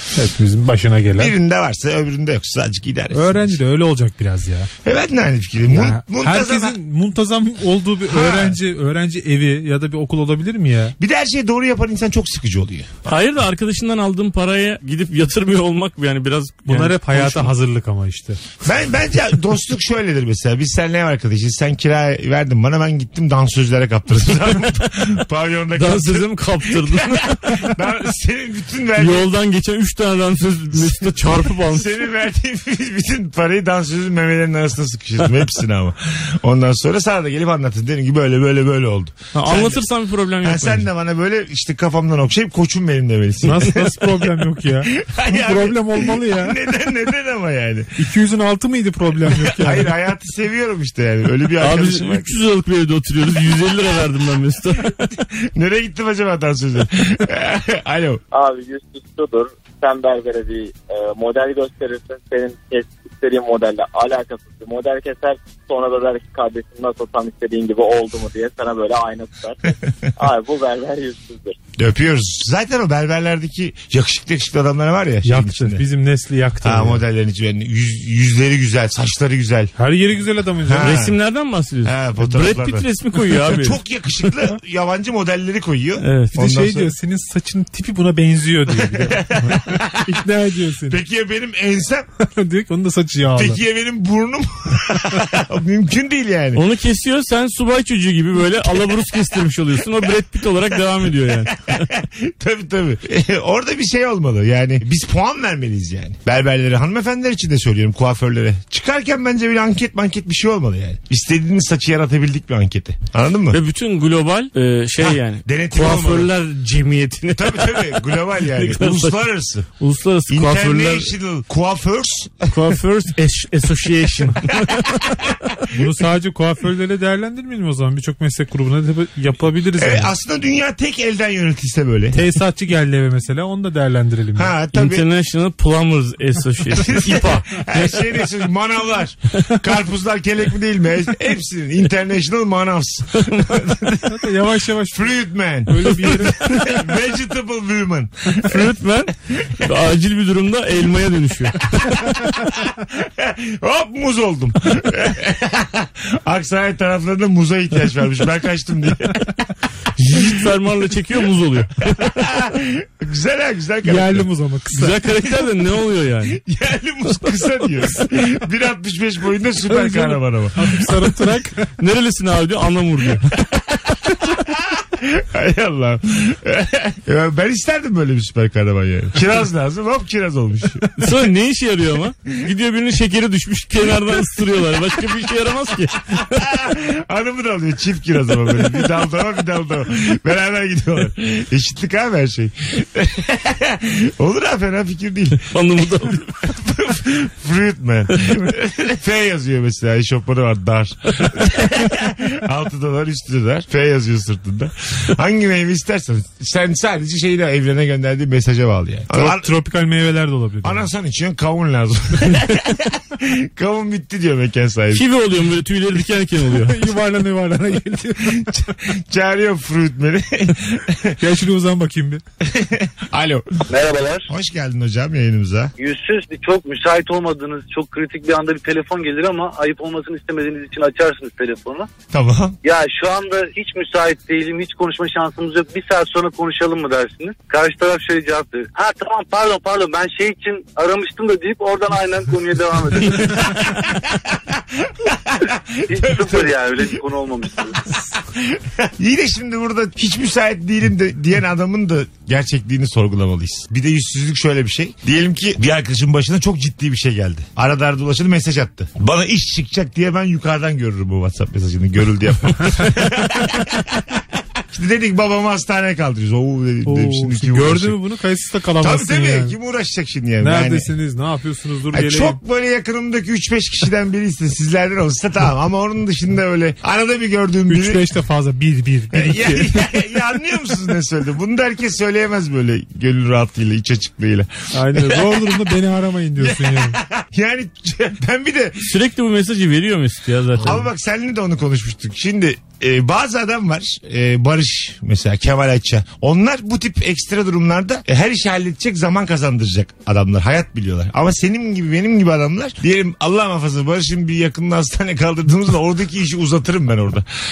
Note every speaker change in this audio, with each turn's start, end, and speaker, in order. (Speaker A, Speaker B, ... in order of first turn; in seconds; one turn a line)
Speaker A: 0.1-1.3
Speaker B: 1.2-3.6
Speaker A: 3.1-4.7
Speaker B: 4.8-6.8
Speaker A: 5.7-11.0
Speaker B: 8.1-8.6
Speaker B: 11.0-13.1
Speaker C: 13.1-17.5
Speaker A: 16.7-18.4
Speaker B: 18.6-29.3
Speaker C: 25.8-27.7
Speaker C: 29.0-32.1
Speaker B: 30.8-39.8
Speaker C: 39.3-40.9
Speaker B: 40.4-43.9
Speaker A: 43.4-46.6
Speaker B: 44.9-48.0
Speaker A: 48.0-49.9
Speaker B: 49.2-52.4
Speaker C: 51.6-55.0
Speaker B: 55.3-58.2
Speaker D: 58.3-71.6
Speaker B: 71.8-75.9
Speaker A: 75.2-77.0
Speaker B: 76.6-79.7
Speaker A: 79.8-81.0
Speaker B: 80.6-81.2
Speaker C: 80.8-83.8
Speaker B: 81.8-86.9
Speaker C: 86.0-86.3
Speaker A: 86.4-91.0
Speaker B: 88.8-90.0
Speaker B: 90.9-92.1
Speaker A: 92.2-93.6
Speaker B: 93.4-96.6
Speaker C: 96.5-101.8
Speaker B: 101.7-113.6
Speaker C: 113.5-121.1
Speaker B: 115.0-116.3
Speaker B: 117.3-119.7
Speaker B: 120.3-122.5
Speaker C: 122.5-125.3
Speaker A: 125.7-130.1
Speaker B: 129.8-132.2
Speaker A: 132.1-134.5
Speaker B: 134.3-135.1
Speaker C: 134.7-137.5
Speaker B: 136.7-144.2
Speaker C: 143.2-143.7
Speaker A: 144.1-146.8
Speaker B: 144.9-148.7
Speaker C: 146.1-146.7
Speaker C: 148.4-152.1
Speaker B: 152.6-159.4
Speaker C: 160.0-162.3
Speaker B: 162.0-164.3
Speaker A: 163.8-165.0
Speaker C: 164.7-166.4
Speaker B: 166.3-170.7
Speaker A: 169.7-171.6
Speaker C: 171.8-173.3
Speaker B: 174.4-180.9
Speaker C: 181.0-186.4
Speaker B: 186.1-195.5
Speaker C: 195.5-196.4
Speaker B: 196.4-209.5
Speaker A: 209.1-210.9
Speaker B: 210.6-215.1
Speaker C: 214.9-216.9
Speaker A: 216.6-218.5
Speaker B: 218.3-221.2
Speaker A: 221.2-222.2
Speaker B: 222.4-223.5
Speaker E: 223.7-224.3
Speaker B: 224.3-225.7
Speaker E: 225.8-231.9
Speaker B: 232.1-232.6
Speaker E: 232.6-243.7
Speaker B: 244.8-246.5
Speaker E: 245.9-247.8
Speaker B: 248.2-268.0
Speaker A: 266.9-269.6
Speaker B: 268.8-270.9
Speaker A: 270.4-272.4
Speaker B: 271.9-278.0
Speaker A: 277.7-279.9
Speaker B: 279.1-285.7
Speaker A: 284.7-287.0
Speaker B: 286.4-288.9
Speaker C: 288.8-290.9
Speaker B: 290.6-307.3